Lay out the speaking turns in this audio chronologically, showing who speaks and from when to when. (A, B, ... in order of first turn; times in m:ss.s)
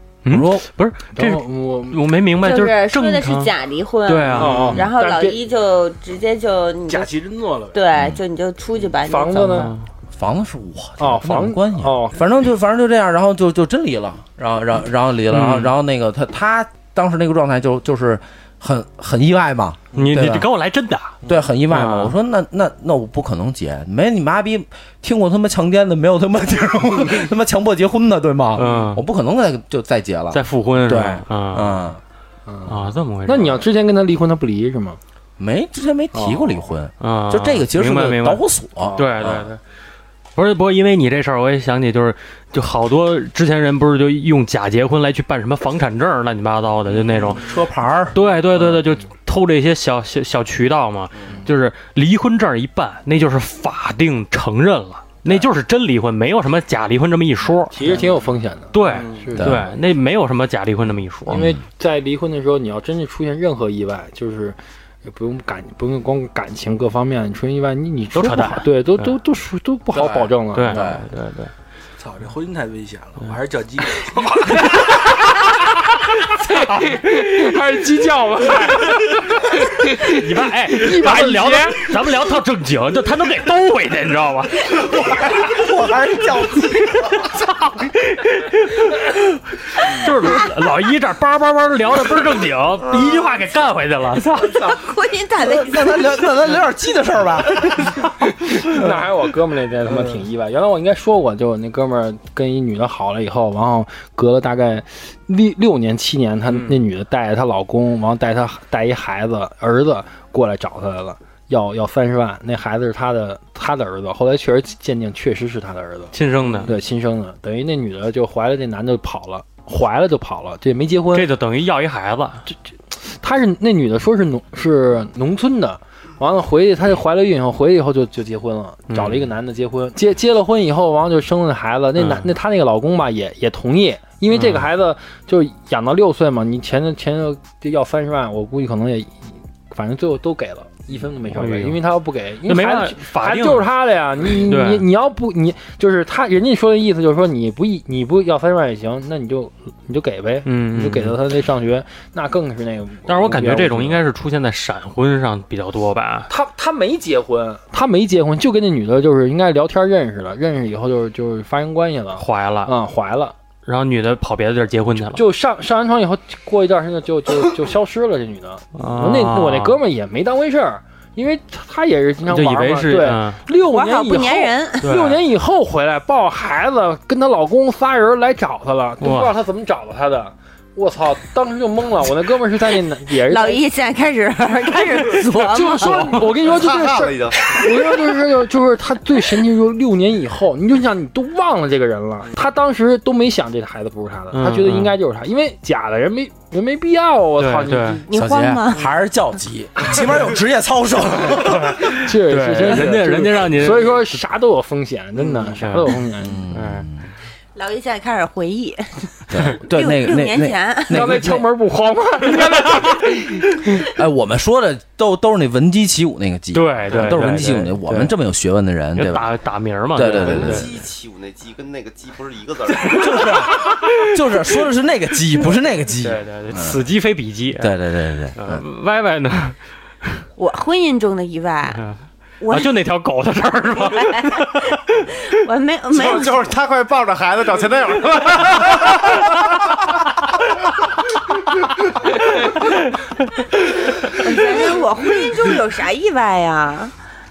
0:00.2-0:03.5 A
0:00.3-0:00.6 B
0:01.1-0:02.0 C
0:02.4-0:07.1 D
0:04.1-0:04.8 A
0:04.4-0:05.4 C
0:06.9-0:07.8 E
0:07.7-0:09.7 D
0:09.0-0:09.7 C
0:09.5-0:09.8 A
0:10.1-0:20.5 B
0:11.0-0:12.2 C
0:15.3-0:15.7 A
0:20.0-0:21.2 A
0:21.2-0:32.0 B
0:21.7-0:22.1 A
0:28.6-0:29.0 A
0:28.6-0:28.9 E
0:30.3-0:31.9 A
0:32.5-0:35.0 C
0:32.7-0:33.6 A
0:35.4-0:39.5 B
0:36.1-0:36.6 C
0:37.0-0:38.4 A
0:39.0-0:39.6 A
0:40.4-0:47.5 A
0:47.3-0:48.2 B
0:48.1-0:58.0 A
0:57.7-0:59.6 C
0:58.7-1:01.4 A
0:58.9-0:59.3 E
0:59.4-0:59.6 B
1:01.3-1:01.6 B
1:01.3-1:11.0 C
1:08.1-1:09.1 A
1:10.0-1:11.0 B
1:10.5-1:11.5 A
1:12.0-1:15.1 E
1:16.4-1:21.9 C
1:20.0-1:25.3 A
1:24.8-1:27.3 B
1:27.1-1:34.8 A
1:34.6-1:36.3 D
1:35.4-1:38.0 B
1:38.4-2:01.3 C
1:38.6-1:39.1 B
1:56.1-1:56.7 A
2:01.1-2:02.5 A
2:02.5-2:34.0 C
2:08.9-2:09.3 A
2:12.0-2:12.3 A
2:14.3-2:14.7 A
2:21.3-2:21.8 A
2:22.4-2:23.7 A
2:24.4-2:24.9 A
2:30.5-2:31.2 A
2:33.1-2:36.3 A
2:36.3-2:43.4 C
2:42.2-2:42.7 A
2:43.6-2:45.2 A
2:45.1-3:03.6 C
2:48.8-2:49.8 A
2:52.3-2:53.4 A
2:53.6-2:54.9 D
2:54.8-2:55.2 A
2:59.0-2:59.3 A
3:03.2-3:06.3 D
3:05.4-3:18.0 C
3:06.4-3:07.6 F
3:14.3-3:15.0 A
3:17.4-3:18.0 A
3:18.1-3:18.9 D
3:18.1-3:21.9 B
3:21.5-3:24.2 A
3:21.9-3:26.4 C
3:25.6-3:26.0 A
3:26.2-3:27.1 B
3:26.5-3:26.9 A
3:27.6-3:29.1 D
3:29.3-3:31.5 B
3:29.6-3:31.0 D
3:30.9-3:33.8 C
3:33.8-3:39.3 B
3:36.5-3:38.1 A
3:39.0-3:40.7 A
3:39.9-3:40.7 B
3:40.0-3:43.5 F
3:42.8-3:46.8 B
3:46.0-3:47.8 A
3:47.6-3:48.6 B
3:48.4-3:50.2 A
3:50.4-3:51.9 D
3:52.4-3:52.7 D
3:52.5-3:55.2 A
3:53.9-3:56.4 D
3:55.9-3:59.6 F
4:04.0-4:06.9 D